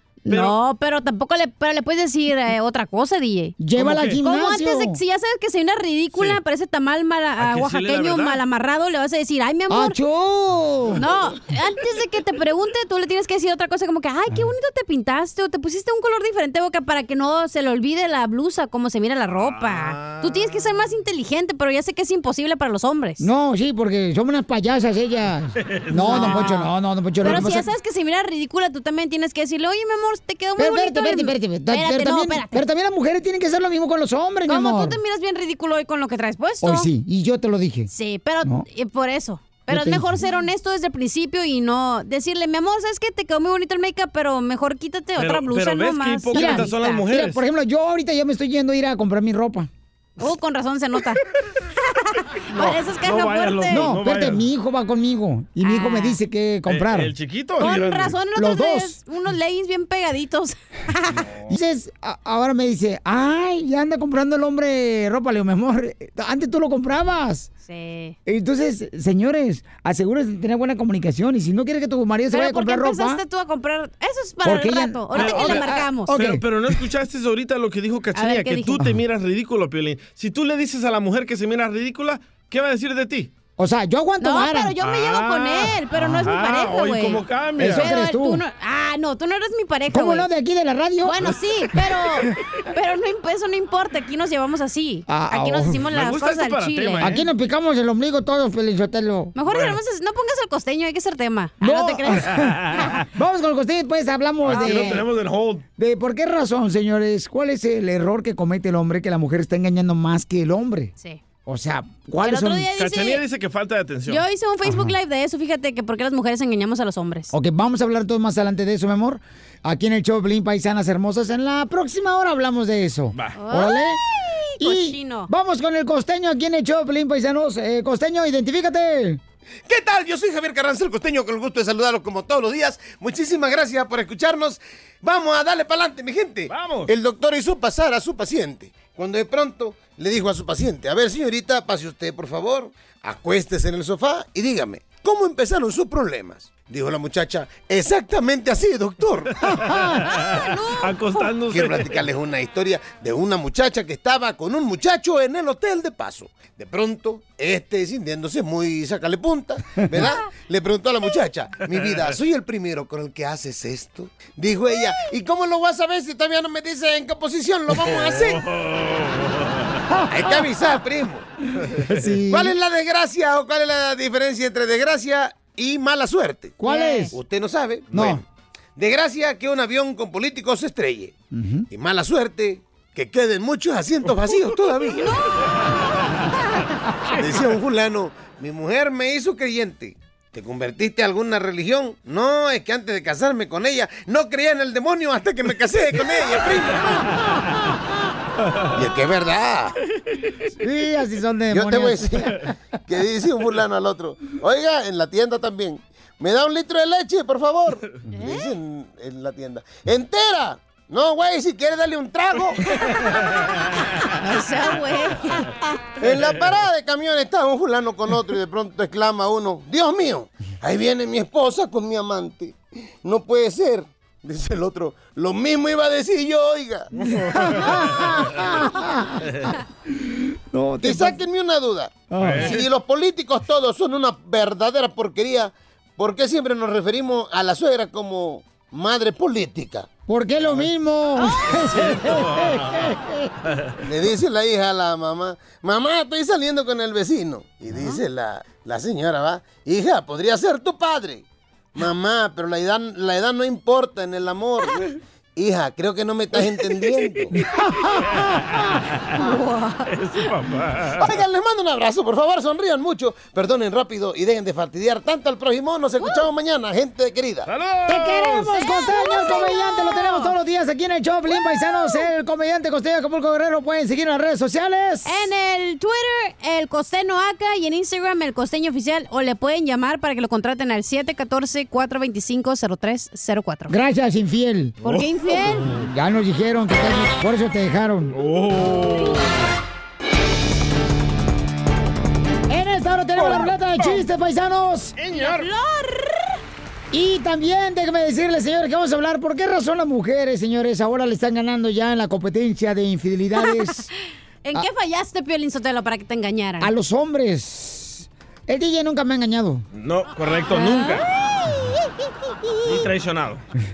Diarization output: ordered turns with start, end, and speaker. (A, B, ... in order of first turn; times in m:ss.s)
0:00.2-0:03.6 A
0:00.3-0:00.6 B
0:03.6-0:05.0 C
0:03.8-0:04.2 B
0:04.2-0:10.0 A
0:07.4-0:08.4 B
0:09.7-0:11.0 C
0:11.0-0:23.2 A
0:19.4-0:20.6 B
0:23.2-0:27.6 C
0:25.6-0:26.7 B
0:26.0-0:26.5 A
0:27.2-0:32.6 A
0:30.6-0:35.0 C
0:34.5-0:36.9 A
0:36.6-0:37.9 C
0:37.9-0:47.0 A
0:39.7-0:40.2 C
0:45.2-0:47.4 B
0:46.3-0:49.7 C
0:50.2-0:51.2 A
0:52.1-0:53.9 A
0:52.5-0:54.4 B
0:53.7-0:57.1 C
0:55.6-0:56.2 A
0:56.7-0:58.2 B
0:57.6-1:01.2 A
0:58.4-0:59.0 C
1:01.2-1:01.5 B
1:01.5-1:07.5 C
1:07.6-1:08.2 A
1:08.2-1:13.2 C
1:12.3-1:16.1 A
1:14.4-1:16.4 C
1:15.1-1:23.3 B
1:18.1-1:18.8 A
1:23.6-1:24.7 C
1:24.2-1:27.2 A
1:24.8-1:27.9 B
1:26.0-1:26.3 C
1:27.6-1:28.4 C
1:27.8-1:30.3 A
1:29.9-1:31.3 C
1:31.0-1:37.2 A
1:35.1-1:35.8 C
1:35.9-1:37.2 B
1:37.0-1:39.3 C
1:39.3-1:42.3 A
1:39.5-1:39.8 B
1:41.6-1:45.0 C
1:42.3-1:43.0 B
1:44.4-1:45.6 B
1:44.5-1:45.0 A
1:45.8-1:50.9 C
1:51.4-1:52.7 C
1:52.2-1:53.2 A
1:52.7-1:54.2 B
1:54.1-1:57.3 A
1:54.6-1:54.9 C
1:57.3-2:04.0 C
2:03.3-2:05.3 A
2:04.6-2:09.2 C
2:09.6-2:29.3 D
2:16.5-2:16.9 B
2:29.5-2:30.0 C
2:29.5-2:32.0 B
2:30.0-2:31.3 A
2:31.5-2:48.4 D
2:41.8-2:42.2 B
2:47.8-2:49.8 B
2:50.1-2:51.2 D
2:51.7-2:52.0 B
2:51.9-2:52.5 C
2:52.3-2:56.5 D
2:56.6-2:57.1 C
2:56.7-2:57.1 A
2:57.1-2:58.2 D
2:58.8-3:01.1 D
3:01.3-3:01.6 C
3:01.7-3:05.2 D
3:05.0-3:05.3 A
3:07.2-3:16.9 D
3:18.7-3:19.7 D
3:20.6-3:22.4 C
3:21.5-3:22.2 D
3:22.9-3:32.6 D
3:28.1-3:28.5 A
3:34.2-3:35.6 A
3:36.0-3:46.9 D
3:46.9-3:48.2 B
3:47.2-3:49.5 C
3:50.5-3:51.2 C
3:50.8-3:59.9 D
3:52.1-3:52.6 C
3:52.2-3:52.6 B
4:00.1-4:03.3 C
4:01.5-4:02.8 B
4:03.8-4:11.2 D
4:11.7-4:17.3 D
4:17.6-4:18.4 C
4:18.0-4:18.6 B
4:19.2-4:19.9 A
4:19.9-4:21.1 B
4:21.0-4:27.5 D
4:27.5-4:28.5 B
4:27.9-4:35.1 C
4:28.5-4:30.3 A
4:35.0-4:43.7 A
4:43.7-4:44.8 C
4:44.8-4:45.7 A
4:44.8-4:45.9 B
4:45.6-4:48.1 C
4:48.1-4:49.3 B
4:52.5-4:54.9 C
4:53.3-4:54.0 A
4:55.0-4:55.5 B
4:55.1-4:56.2 A
4:56.9-5:03.9 C
5:04.4-5:06.7 A
5:06.6-5:09.6 C
5:09.7-5:11.0 B
5:10.5-5:12.6 A
5:12.6-5:13.4 B